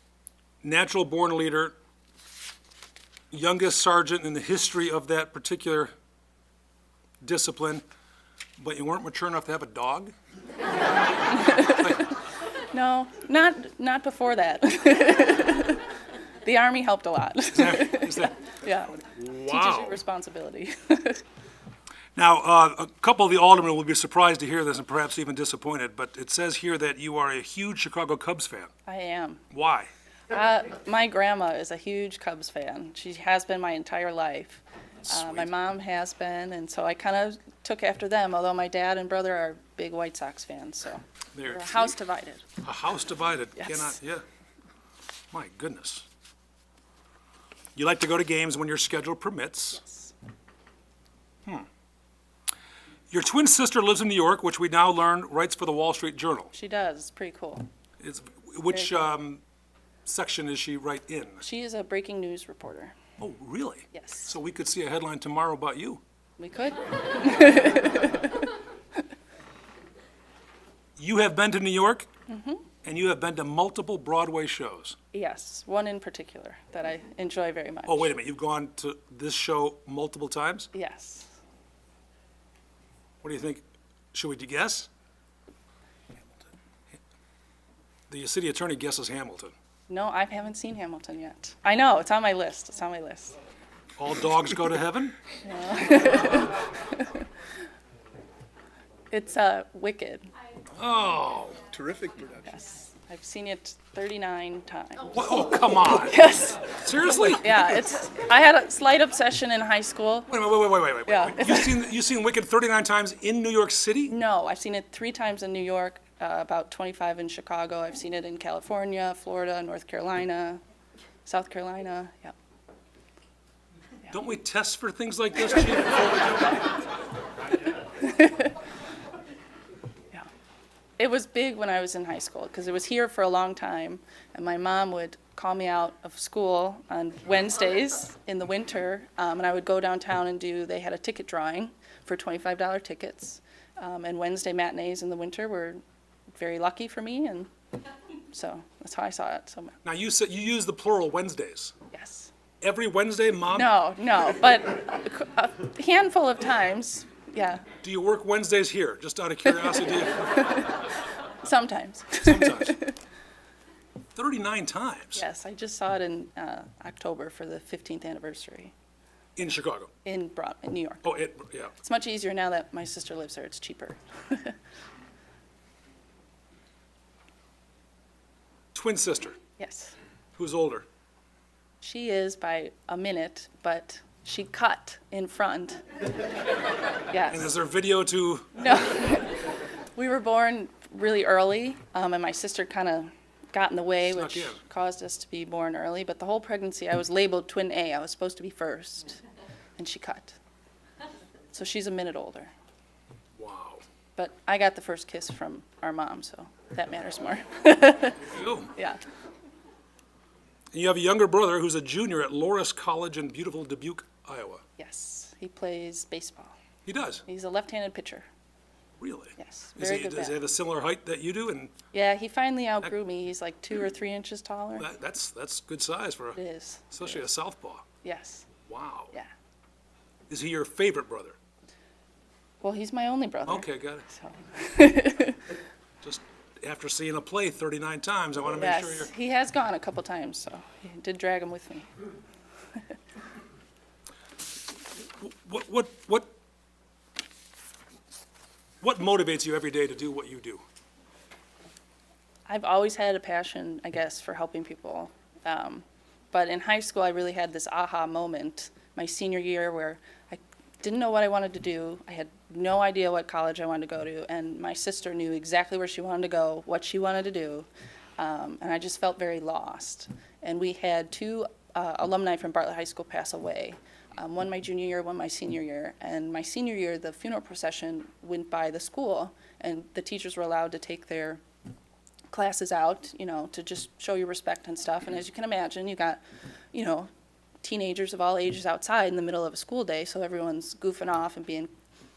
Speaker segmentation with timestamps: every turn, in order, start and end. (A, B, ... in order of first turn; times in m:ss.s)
0:00.6-0:01.7 A
0:03.3-0:05.9 A
0:07.2-0:07.8 A
0:08.6-0:10.1 A
0:11.3-0:12.1 B
0:12.7-0:15.9 B
0:16.4-0:21.2 B
0:17.5-0:18.5 A
0:19.0-0:20.0 A
0:22.2-0:28.7 A
0:28.8-0:29.4 B
0:29.5-0:29.9 A
0:30.3-0:42.4 B
0:35.0-0:35.5 A
0:41.3-0:42.0 A
0:42.6-0:44.2 A
0:43.6-0:44.0 B
0:45.3-0:46.0 A
0:47.8-0:49.8 A
0:49.7-0:50.1 B
0:53.1-0:56.5 A
0:56.5-0:57.7 B
0:58.0-0:59.4 A
1:00.0-1:01.4 A
1:01.4-1:03.0 B
1:03.2-1:06.0 A
1:03.9-1:04.4 B
1:06.4-1:08.5 B
1:11.0-1:12.1 A
1:12.3-1:12.7 B
1:12.8-1:15.0 A
1:15.1-1:18.1 B
1:17.9-1:20.7 A
1:20.7-1:21.3 B
1:23.2-1:23.6 A
1:24.1-1:24.9 A
1:28.1-1:29.5 A
1:29.9-1:33.4 B
1:34.0-1:35.2 A
1:35.4-1:37.2 B
1:39.1-1:40.3 B
1:40.8-1:41.7 A
1:42.4-1:50.3 B
1:45.1-1:46.2 A
1:46.8-1:47.5 A
1:50.3-1:54.2 A
1:51.1-1:51.9 B
1:54.1-2:00.6 B
2:01.3-2:02.4 B
2:04.1-2:06.5 A
2:08.0-2:08.5 B
2:11.0-2:25.8 B
2:26.3-2:27.5 B
2:28.3-2:29.8 B
2:29.8-2:31.7 A
2:31.9-2:32.3 B
2:32.6-2:33.7 A
2:33.5-2:37.7 B
2:37.8-2:40.4 A
2:40.3-2:40.8 B
2:41.4-2:43.0 B
2:42.2-2:42.8 A
2:44.1-2:45.2 A
2:45.1-2:48.7 B
2:49.4-2:49.9 A
2:50.0-2:51.0 B
2:51.0-2:51.7 A
2:51.8-2:54.6 B
2:58.7-2:59.4 A
2:59.6-3:00.0 B
3:00.4-3:00.8 A
3:01.8-3:05.8 B
3:07.1-3:07.5 B
3:07.3-3:08.5 A
3:08.6-3:09.4 B
3:10.0-3:19.2 B
3:14.0-3:14.6 A
3:19.8-3:20.4 B
3:21.5-3:22.5 B
3:23.4-3:23.8 A
3:24.2-3:29.0 B
3:28.3-3:28.7 A
3:30.7-3:34.6 A
3:34.8-3:36.5 B
3:36.8-3:37.2 A
3:37.2-3:38.3 B
3:39.0-3:41.7 A
3:39.4-3:40.4 B
3:41.9-3:44.9 B
3:44.8-3:46.4 A
3:46.4-3:47.3 B
3:46.9-3:47.8 A
3:48.0-3:48.5 B
3:48.7-3:49.1 A
3:50.3-3:51.4 A
3:52.6-3:55.5 B
3:53.5-3:54.0 A
3:56.0-3:59.1 A
3:58.5-4:01.9 B
4:05.2-4:06.3 A
4:08.8-4:10.6 A
4:12.5-4:41.4 B
4:42.3-4:46.2 B
4:46.7-4:47.1 B
4:47.6-4:51.7 B